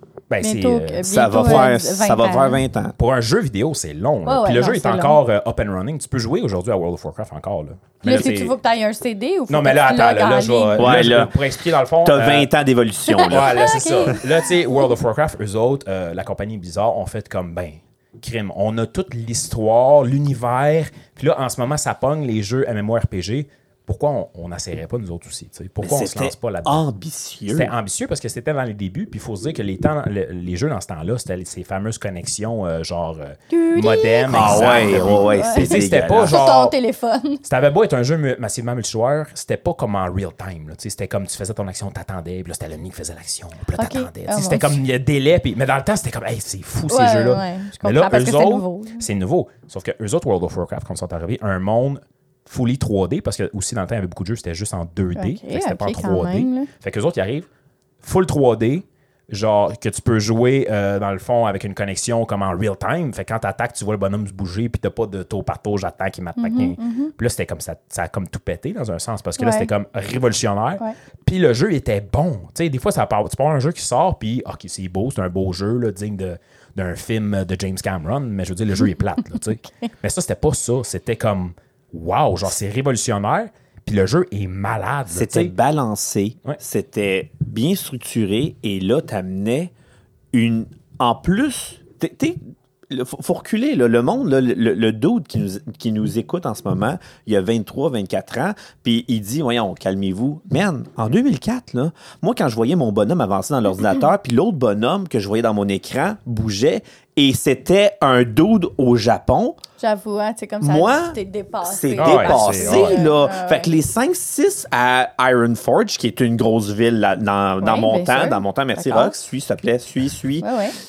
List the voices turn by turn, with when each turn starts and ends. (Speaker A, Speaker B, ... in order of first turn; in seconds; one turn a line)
Speaker A: 0.3-1.6
Speaker B: 0.4-2.6
Speaker C: 1.0-3.0
Speaker A: 3.0-8.5
Speaker B: 4.2-5.2
Speaker B: 8.0-11.1
Speaker A: 9.5-12.5
Speaker C: 10.8-11.5
Speaker C: 12.0-14.2
Speaker B: 13.1-14.2
Speaker A: 13.3-26.8
Speaker C: 25.8-27.7
Speaker A: 27.5-36.7
Speaker B: 33.5-37.4
Speaker C: 34.3-36.4
Speaker A: 37.4-57.5
Speaker B: 43.8-44.8
Speaker B: 46.9-49.0
Speaker B: 55.1-56.7
Speaker A: 58.0-85.5
Speaker B: 66.4-67.1
Speaker B: 69.4-69.7
Speaker C: 85.1-89.7
Speaker C: 90.3-109.6
Speaker B: 109.8-113.7
Speaker C: 110.6-120.5
Speaker A: 112.0-113.0
Speaker B: 117.6-119.1
Speaker B: 120.4-120.8